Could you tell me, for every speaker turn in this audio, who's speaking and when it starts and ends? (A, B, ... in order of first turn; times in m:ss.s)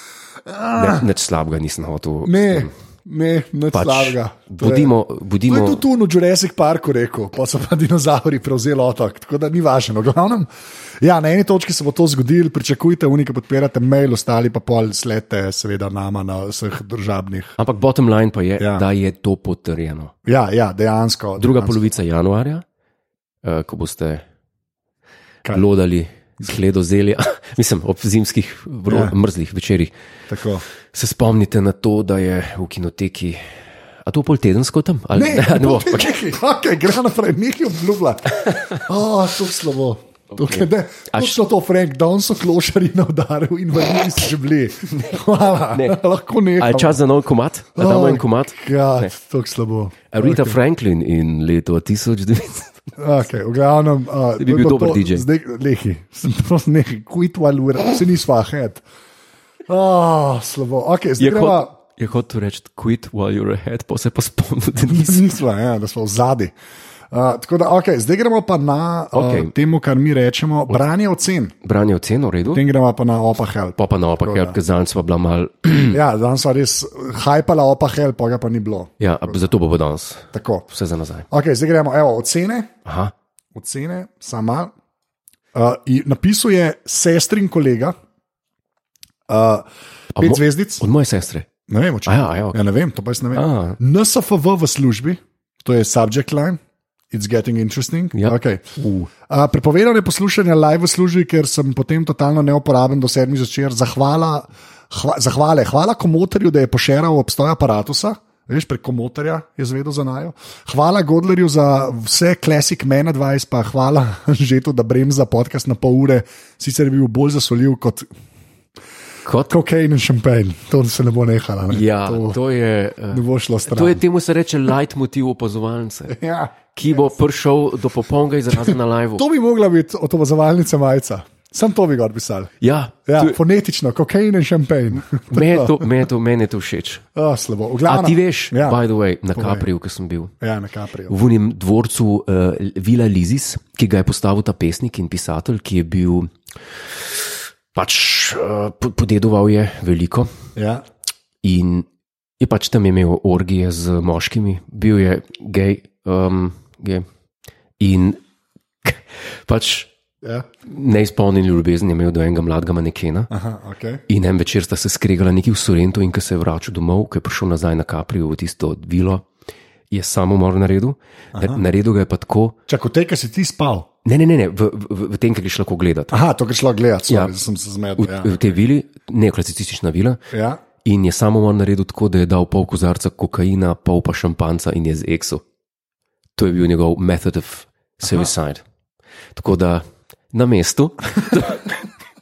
0:00.4-0:01.1 A
0:00.8-0:02.7 B
0:02.2-0:04.9 A
0:03.7-0:05.8 B
0:05.5-0:10.5 A
0:11.0-0:17.6 A
0:17.6-0:20.1 B
0:18.6-0:18.8 A
0:20.3-0:21.8 A
0:21.4-0:22.6 B
0:23.4-0:24.2 B
0:25.5-0:29.9 B
0:28.9-0:29.1 A
0:30.3-0:30.6 A
0:30.9-0:33.4 B
0:34.1-0:36.3 B
0:35.1-0:47.0 A
0:38.4-0:38.8 B
0:40.3-0:41.4 B
0:45.7-0:46.0 B
0:46.6-0:49.1 B
0:47.8-0:50.6 A
0:50.1-0:52.8 B
0:53.0-0:58.8 A
0:54.4-0:55.2 B
0:59.7-1:01.7 A
1:01.2-1:05.2 B
1:04.9-1:06.5 A
1:07.1-1:11.5 A
1:09.1-1:09.5 B
1:11.6-1:12.6 B
1:12.5-1:14.6 A
1:13.8-1:16.0 B
1:15.9-1:19.4 A
1:19.0-1:21.3 B
1:20.3-1:20.7 A
1:21.3-1:22.7 A
1:22.8-1:23.1 B
1:23.6-1:24.7 A
1:25.5-1:27.9 A
1:29.3-1:30.8 A
1:30.2-1:31.5 B
1:31.7-1:36.6 A
1:32.1-1:32.6 B
1:33.3-1:33.8 B
1:37.1-1:38.6 A
1:38.1-1:39.1 B
1:39.3-1:58.1 A
1:59.2-1:59.5 B
1:59.5-2:02.4 A
2:01.7-2:06.2 B
2:03.1-2:04.0 A
2:06.1-2:07.1 A
2:06.7-2:09.2 B
2:08.6-2:12.5 A
2:12.6-2:13.4 B
2:13.1-2:15.9 A
2:15.3-2:17.0 B
2:17.2-2:18.8 A
2:17.9-2:20.3 B
2:19.4-2:19.7 A
2:20.4-2:21.2 A
2:21.1-2:26.3 B
2:27.0-2:30.3 B
2:30.6-2:30.8 A
2:31.4-2:31.9 B
2:32.4-2:37.1 B
2:37.8-2:38.2 B
2:38.8-2:39.9 B
2:40.7-2:43.3 B
2:43.3-2:44.0 A
2:44.1-2:49.3 B
2:49.9-2:52.6 B
2:51.4-2:51.6 A
2:52.7-2:53.9 A
2:54.0-2:56.2 B
2:56.1-2:58.4 A
2:57.1-2:57.3 B
2:58.0-3:00.2 B
3:00.3-3:00.6 A
3:00.8-3:05.4 B
3:06.4-3:08.6 B
3:09.4-3:11.8 B